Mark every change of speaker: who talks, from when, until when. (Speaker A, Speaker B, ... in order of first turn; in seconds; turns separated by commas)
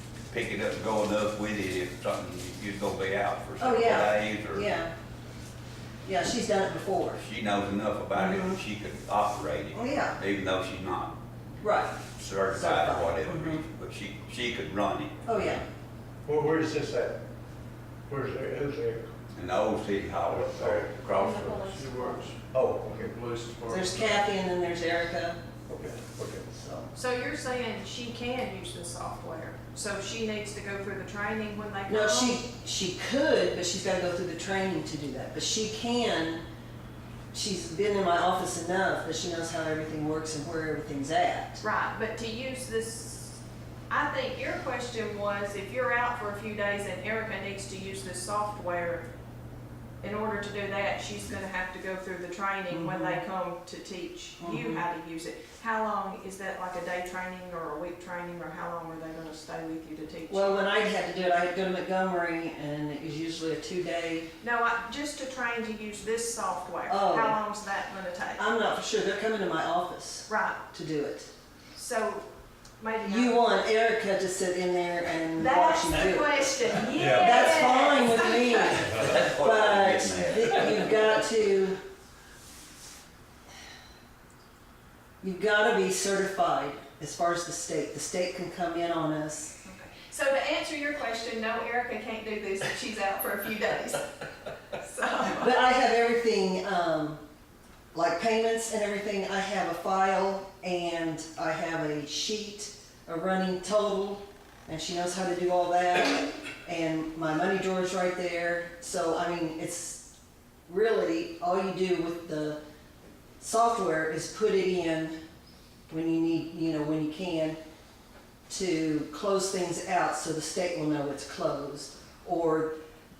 Speaker A: 0.3-4.7, Speaker B: 3.6-4.9, Speaker B: 6.0-7.2, Speaker A: 7.2-11.1, Speaker B: 8.1-8.6, Speaker B: 9.7-10.2, Speaker B: 11.6-13.6, Speaker A: 12.1-15.3, Speaker B: 15.2-15.6, Speaker C: 16.2-17.2, Speaker C: 18.1-19.1, Speaker A: 19.3-21.7, Speaker C: 20.2-20.9, Speaker D: 21.1-22.3, Speaker E: 21.6-24.3, Speaker C: 22.5-23.0, Speaker B: 23.7-25.4, Speaker C: 25.7-26.5, Speaker B: 26.5-26.9, Speaker D: 26.9-32.4, Speaker B: 31.9-36.4, Speaker B: 37.3-41.6, Speaker D: 41.6-49.0, Speaker D: 50.0-60.6, Speaker B: 52.7-53.2, Speaker B: 54.4-54.9, Speaker B: 60.3-64.3, Speaker D: 64.4-68.4, Speaker B: 66.9-67.4, Speaker B: 68.4-71.3, Speaker D: 70.3-70.7, Speaker D: 71.7-73.4, Speaker B: 73.0-81.8, Speaker D: 75.3-78.8, Speaker C: 76.9-77.5, Speaker A: 78.8-81.1, Speaker C: 78.8-79.2, Speaker B: 85.2-89.5, Speaker D: 89.6-95.5, Speaker B: 95.3-97.2, Speaker B: 97.9-110.1, Speaker B: 110.7-112.6, Speaker B: 113.4-115.2, Speaker B: 115.9-117.6, Speaker B: 118.5-122.7